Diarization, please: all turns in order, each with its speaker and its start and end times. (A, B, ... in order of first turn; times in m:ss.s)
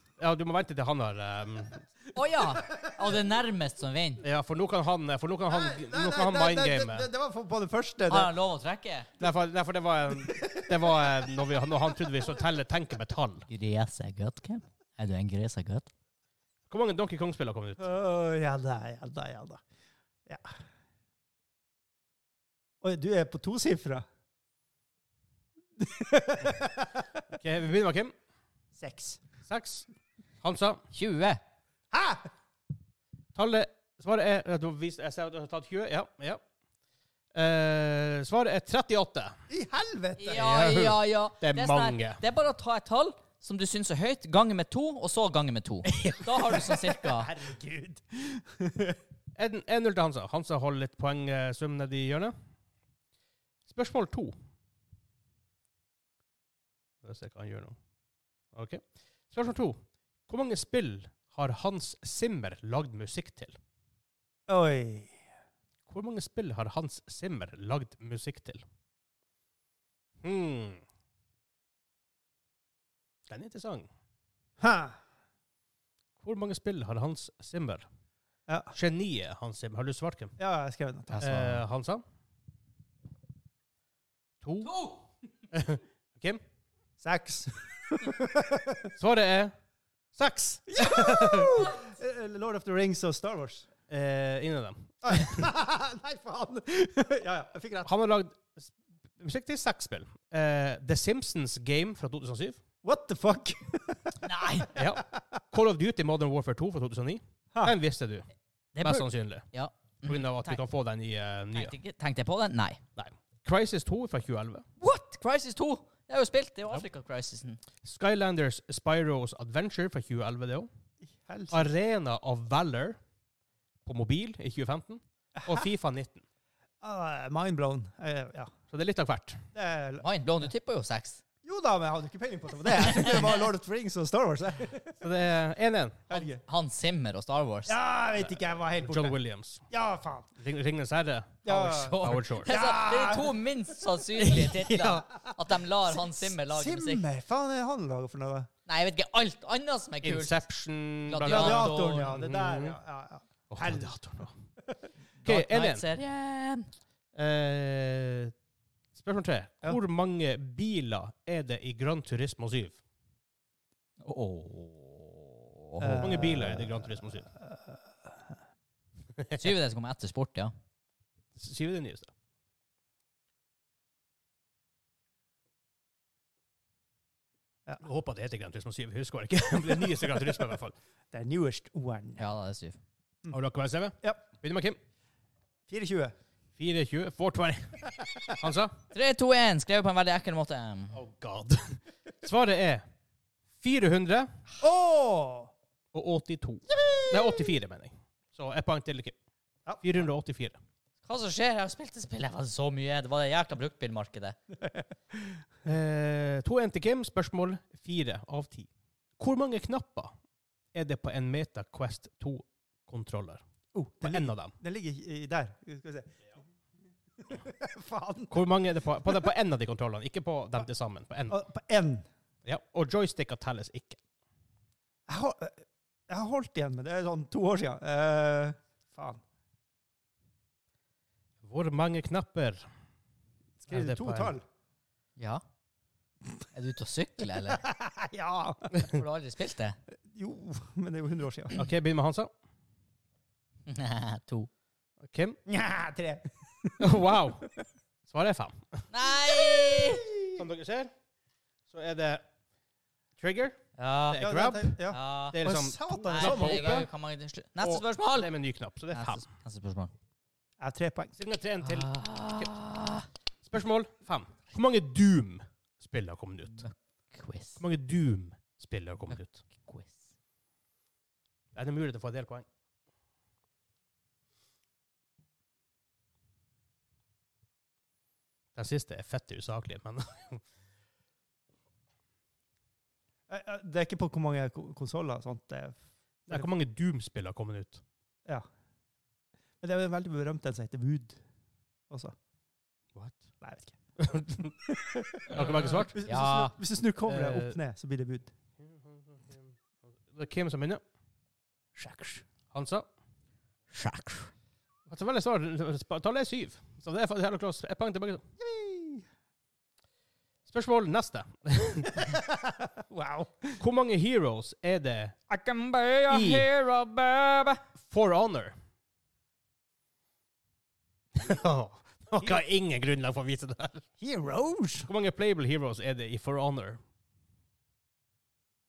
0:00.2-0:01.8 A
0:02.1-0:04.2 B
0:02.6-0:03.1 C
0:04.2-0:07.1 A
0:05.5-0:08.3 C
0:08.1-0:09.1 B
0:09.2-0:13.5 A
0:10.2-0:11.3 C
0:13.5-0:15.9 B
0:16.7-0:17.8 A
0:17.8-0:19.6 C
0:20.3-0:20.6 C
0:22.8-0:24.0 C
0:25.8-0:27.2 C
0:27.3-0:28.1 A
0:28.8-0:29.2 C
0:29.5-0:29.9 A
0:30.4-0:30.8 A
0:30.9-0:31.4 B
0:31.9-0:32.3 C
0:33.4-0:36.4 A
0:37.3-0:39.4 A
0:39.5-0:40.8 C
0:40.2-0:47.3 B
0:40.4-0:42.2 A
0:45.9-0:46.3 A
0:46.5-0:49.0 C
0:49.4-0:52.4 A
0:53.7-0:54.3 A
0:57.0-0:57.8 A
0:58.5-1:03.6 A
1:04.5-1:05.2 C
1:05.9-1:08.6 A
1:10.2-1:10.8 A
1:13.3-1:13.9 A
1:14.6-1:15.0 C
1:16.2-1:17.9 A
1:18.5-1:18.8 C
1:18.7-1:20.4 A
1:20.4-1:21.6 C
1:21.2-1:21.5 B
1:21.2-1:22.0 A
1:24.4-1:24.8 A
1:24.6-1:25.0 B
1:25.5-1:26.4 A
1:27.0-1:28.9 C
1:29.0-1:29.5 A
1:30.2-1:31.7 A
1:30.7-1:33.7 C
1:33.9-1:35.4 A
1:35.0-1:37.9 C
1:37.8-1:42.6 A
1:42.8-1:45.2 C
1:44.2-1:44.7 B
1:44.8-1:48.3 A
1:48.8-1:50.6 B
1:48.8-1:49.5 A
1:50.0-1:51.8 A
1:51.5-1:52.8 B
1:53.0-1:54.6 A
1:54.8-1:57.6 B
1:57.8-2:00.7 A
2:01.2-2:01.7 C
2:01.5-2:03.0 A
2:03.8-2:06.2 A
2:05.4-2:05.7 C
2:06.8-2:08.5 C
2:08.7-2:09.4 A
2:09.5-2:10.0 C
2:10.0-2:11.2 B
2:11.4-2:15.0 C
2:12.9-2:13.2 B
2:15.0-2:16.0 A
2:16.1-2:16.4 C
2:16.1-2:17.8 B
2:17.7-2:19.2 C
2:18.8-2:19.6 A
2:19.7-2:20.3 C
2:20.4-2:22.5 A
2:21.4-2:23.4 C
2:21.5-2:27.0 B
2:24.2-2:25.1 A
2:26.1-2:28.5 C
2:28.7-2:30.4 B
2:30.0-2:32.8 A
2:31.1-2:32.1 B
2:31.3-2:34.0 C
2:33.5-2:34.3 A
2:35.2-2:36.7 B
2:35.2-2:35.8 A
2:37.2-2:38.3 A
2:39.0-2:42.8 A
2:44.0-2:46.1 B
2:45.8-2:48.2 C
2:46.0-2:47.3 A
2:49.4-2:50.5 B
2:51.4-2:52.1 A
2:57.8-3:00.8 A
3:01.1-3:02.2 C
3:02.2-3:02.8 B
3:03.3-3:04.8 A
3:05.7-3:06.1 C
3:06.6-3:08.8 A
3:08.9-3:11.0 B
3:10.9-3:12.8 A
3:13.6-3:14.3 A
3:14.6-3:15.5 C
3:15.9-3:19.2 A
3:16.7-3:17.5 C
3:19.7-3:20.1 C
3:19.8-3:20.6 A
3:21.0-3:24.4 B
3:24.7-3:25.4 C
3:25.6-3:28.7 A
3:29.2-3:30.1 A
3:30.7-3:33.4 A
3:33.7-3:36.2 C
3:34.0-3:34.5 A
3:37.2-3:38.4 C
3:38.3-3:41.4 A
3:41.3-3:42.1 C
3:42.4-3:44.0 A
3:45.1-3:49.2 C
3:51.4-3:52.7 A
3:53.6-3:54.4 C
3:53.7-3:54.4 A
3:55.2-3:55.4 B
3:56.5-3:57.6 B
3:57.5-3:58.7 C
3:58.8-3:59.8 B
4:00.1-4:01.6 C
4:01.5-4:02.3 A
4:03.7-4:04.5 B
4:05.0-4:05.4 A
4:05.5-4:06.9 C
4:06.8-4:07.5 A
4:08.1-4:08.8 A
4:08.9-4:10.1 B
4:09.3-4:10.4 C
4:10.3-4:10.9 A
4:11.7-4:12.2 A
4:13.2-4:13.6 A
4:13.8-4:14.2 B
4:14.1-4:14.8 A
4:14.2-4:16.9 C
4:14.9-4:15.4 B
4:15.3-4:16.9 A
4:16.0-4:18.3 B
4:17.6-4:19.2 A
4:18.9-4:19.9 B
4:20.6-4:21.2 C
4:21.2-4:22.5 A
4:21.6-4:23.1 B
4:23.5-4:26.6 A
4:26.6-4:27.6 B
4:27.6-4:29.4 A
4:29.1-4:30.1 B
4:31.5-4:32.4 A
4:38.6-4:40.4 A
4:43.3-4:46.5 C
4:46.3-4:47.8 A
4:49.6-4:51.2 C
4:53.0-4:53.3 A
4:53.4-4:53.8 C
4:54.0-4:54.5 A
4:54.4-4:58.3 C
4:55.3-4:56.0 A
4:56.0-4:56.5 B
4:57.1-4:57.6 A
4:58.6-4:59.5 A
5:00.1-5:00.8 A
5:01.8-5:02.2 C
5:02.5-5:02.9 A
5:03.7-5:04.3 B
5:04.9-5:08.2 A
5:08.4-5:09.1 C
5:10.5-5:12.0 A
5:11.9-5:13.6 C
5:13.6-5:15.2 A
5:15.3-5:17.6 B
5:16.1-5:16.5 A
5:17.8-5:18.6 A
5:21.2-5:23.9 A
5:24.0-5:24.9 C
5:24.9-5:26.8 A